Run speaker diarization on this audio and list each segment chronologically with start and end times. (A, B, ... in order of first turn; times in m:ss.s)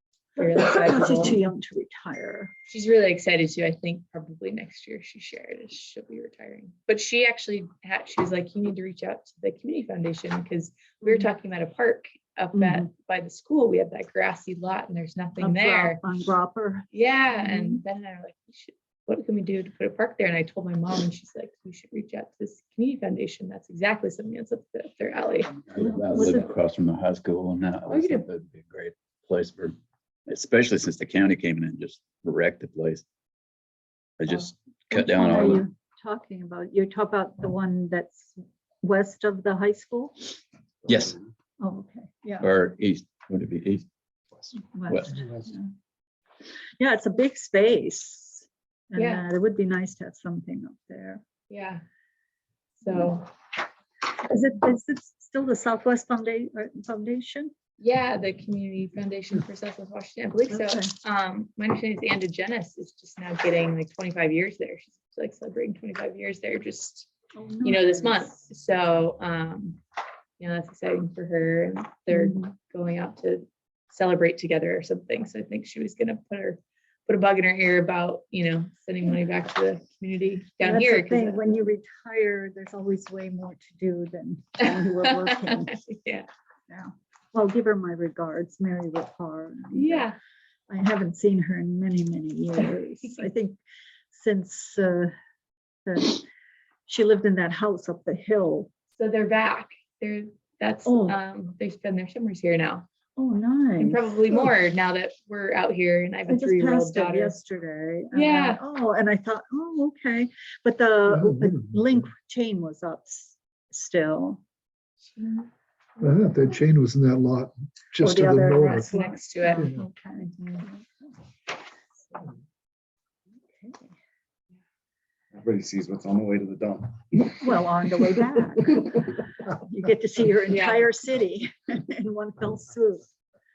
0:00.4-0:01.4 A
0:00.4-0:02.5 B
0:02.7-0:16.0 A
0:11.0-0:11.3 B
0:12.5-0:12.9 B
0:15.4-0:17.8 B
0:16.9-0:25.6 A
0:25.7-0:29.8 C
0:25.8-0:26.5 B
0:27.9-0:28.3 A
0:30.3-0:33.0 C
0:34.2-0:35.7 C
0:34.9-0:40.4 B
0:40.9-0:41.2 C
0:41.6-0:42.5 B
0:42.4-0:43.9 C
0:44.5-0:45.2 C
0:44.7-0:45.7 B
0:46.8-0:51.2 B
0:49.0-0:49.3 A
0:51.5-0:51.8 A
0:52.8-0:53.3 A
0:54.3-0:57.5 B
0:57.8-1:07.1 A
1:00.5-1:00.9 B
1:07.4-1:08.4 B
1:07.6-1:09.8 A
1:10.4-1:21.6 A
1:12.1-1:12.5 B
1:20.6-1:25.8 B
1:24.6-1:26.3 A
1:26.7-1:30.1 B
1:29.7-1:30.2 A
1:30.7-1:33.6 B
1:32.6-1:33.2 A
1:34.1-1:35.1 B
1:35.9-1:36.2 B
1:36.9-1:38.7 B
1:39.0-1:42.9 A
1:40.8-1:41.2 B
1:43.2-1:44.5 B
1:43.8-1:47.4 A
1:46.3-1:54.4 B
1:48.1-1:48.6 A
1:51.1-1:51.8 D
1:55.2-1:55.4 A
1:56.0-1:58.9 D
1:58.0-2:01.1 B
1:58.6-1:59.7 A
2:03.5-2:03.9 B
2:05.3-2:07.3 E
2:07.4-2:13.1 B
2:10.5-2:10.9 A